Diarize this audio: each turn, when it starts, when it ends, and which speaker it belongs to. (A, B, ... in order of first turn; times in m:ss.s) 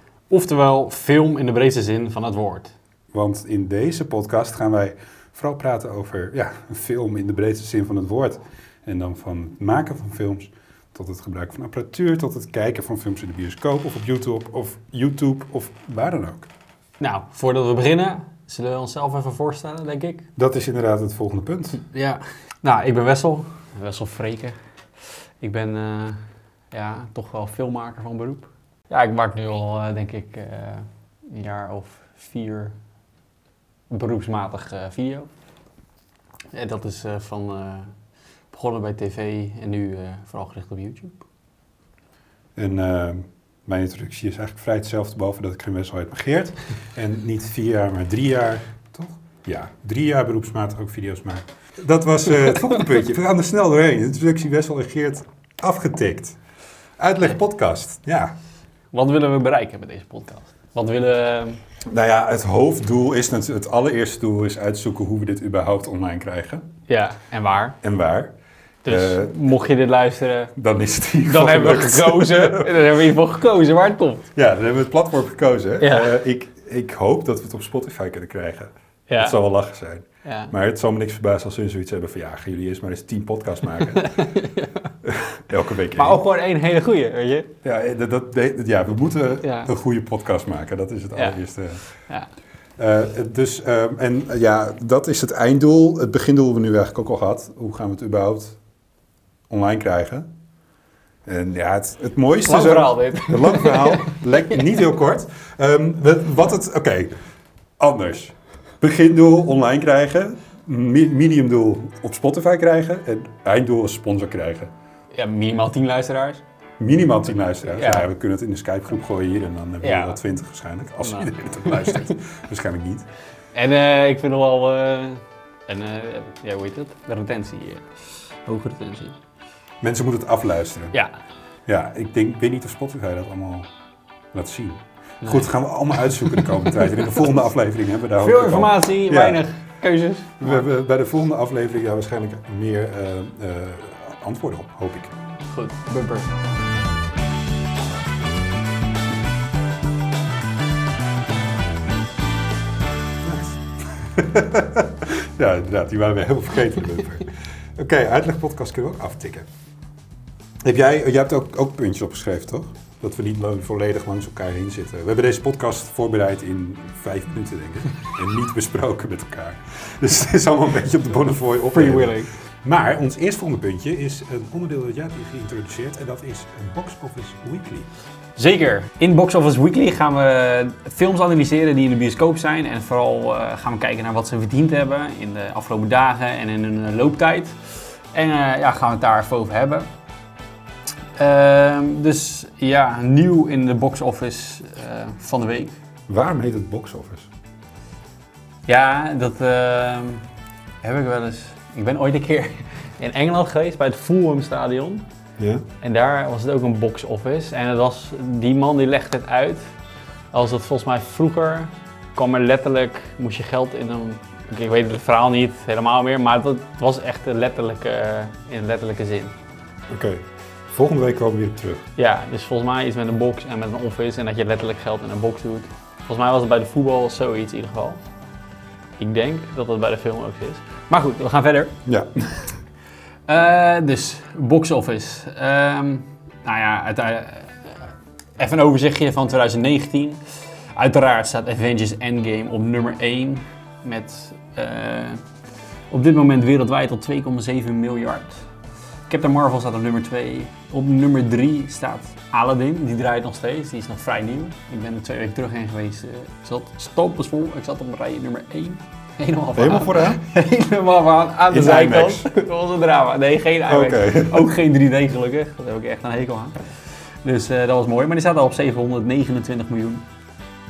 0:00.3-0:02.7 A
0:03.1-0:16.5 B
0:17.0-0:20.3 A
0:20.4-0:21.8 B
0:21.8-0:24.6 A
0:25.4-0:26.2 A
0:26.7-0:32.7 A
0:33.9-0:35.3 A
0:36.5-0:37.9 A
0:38.5-0:41.2 A
0:42.6-0:56.4 B
0:57.0-0:58.3 B
0:58.9-1:01.6 A
1:01.8-1:06.7 B
1:06.9-1:07.8 A
1:07.8-1:08.3 B
1:08.8-1:10.5 A
1:08.8-1:09.3 B
1:10.6-1:12.9 B
1:11.2-1:14.2 A
1:14.3-1:24.3 B
1:15.8-1:16.1 A
1:19.1-1:19.4 A
1:20.2-1:20.5 A
1:23.9-1:24.9 A
1:25.0-1:26.2 B
1:26.0-1:27.5 A
1:27.6-1:31.8 B
1:29.4-1:29.7 A
1:32.8-1:38.6 B
1:39.5-1:40.3 B
1:41.2-1:47.1 B
1:42.4-1:44.2 A
1:47.8-1:54.7 B
1:55.1-1:56.4 A
1:56.8-2:03.0 B
1:57.7-1:58.1 A
1:59.8-2:00.2 A
2:01.0-2:02.1 A
2:03.5-2:07.9 A
2:08.4-2:09.2 A
2:09.8-2:10.9 B
2:11.6-2:13.7 B
2:14.3-2:19.4 B
2:15.2-2:17.2 A
2:18.2-2:20.6 A
2:20.4-2:25.1 B
2:25.5-2:26.3 A
2:33.2-2:39.5 B
2:40.6-2:57.9 B
2:51.7-2:52.3 A
2:58.4-3:07.6 A
3:08.1-3:09.9 A
3:11.2-3:15.8 A
3:16.1-3:17.3 B
3:18.7-3:20.2 A
3:20.8-3:25.0 A
3:25.4-3:25.6 B
3:25.8-3:29.7 A
3:30.3-3:39.3 A
3:39.9-3:41.8 B
3:42.0-3:48.0 A
3:49.0-3:51.7 A
3:51.8-3:52.5 B
3:53.3-4:00.2 A
4:00.7-4:05.2 A
4:05.9-4:08.4 A
4:09.1-4:26.7 A
4:19.6-4:20.2 B
4:21.5-4:22.3 B
4:23.7-4:24.5 B
4:27.2-4:30.0 A